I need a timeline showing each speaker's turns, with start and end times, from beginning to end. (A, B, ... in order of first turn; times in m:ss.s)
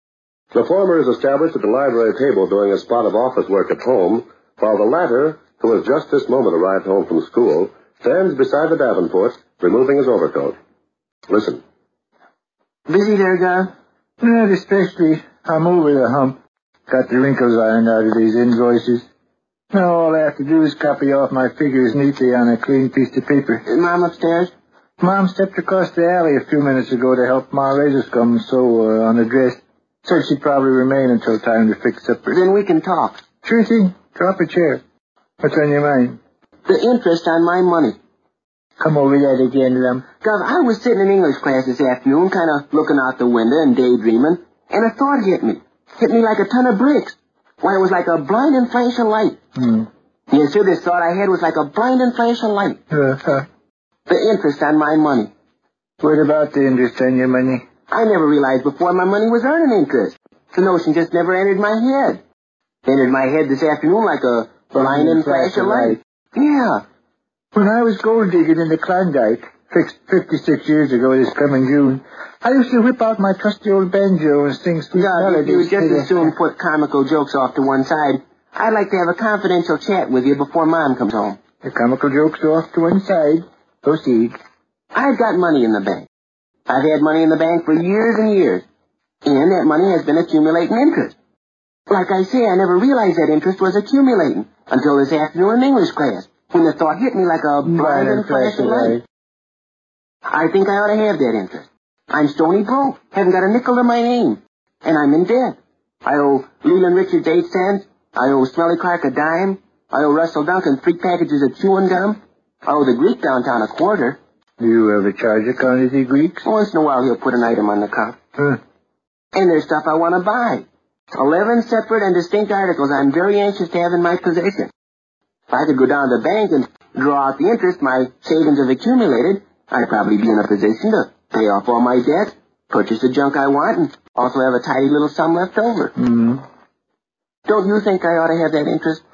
0:00.5-0:10.6 A
0:11.3-0:11.6 A
0:12.9-0:13.7 B
0:14.2-0:16.4 C
0:16.9-0:19.0 C
0:19.7-0:23.6 C
0:23.6-0:24.5 B
0:25.0-0:32.4 C
0:32.3-0:33.2 B
0:33.4-0:34.8 C
0:35.4-0:36.2 C
0:36.6-0:38.0 B
0:38.8-0:40.0 C
0:40.2-0:49.4 B
0:49.6-0:49.9 C
0:50.3-0:52.8 B
0:52.9-0:53.4 C
0:54.1-0:55.3 B
0:56.0-0:57.6 C
0:57.9-1:02.2 B
1:02.8-1:06.8 B
1:04.7-1:06.0 C
1:07.5-1:16.3 C
1:14.9-1:21.4 B
1:21.6-1:24.4 C
1:24.9-1:26.1 B
1:26.7-1:28.6 B
1:29.2-1:31.1 B
1:31.9-1:39.0 B
1:37.6-1:39.0 C
1:40.3-1:54.2 B
1:54.6-1:56.4 C
1:56.4-1:58.2 B
1:59.3-2:04.7 B
2:05.5-2:15.9 B
2:16.0-2:16.4 C
2:17.4-2:19.0 B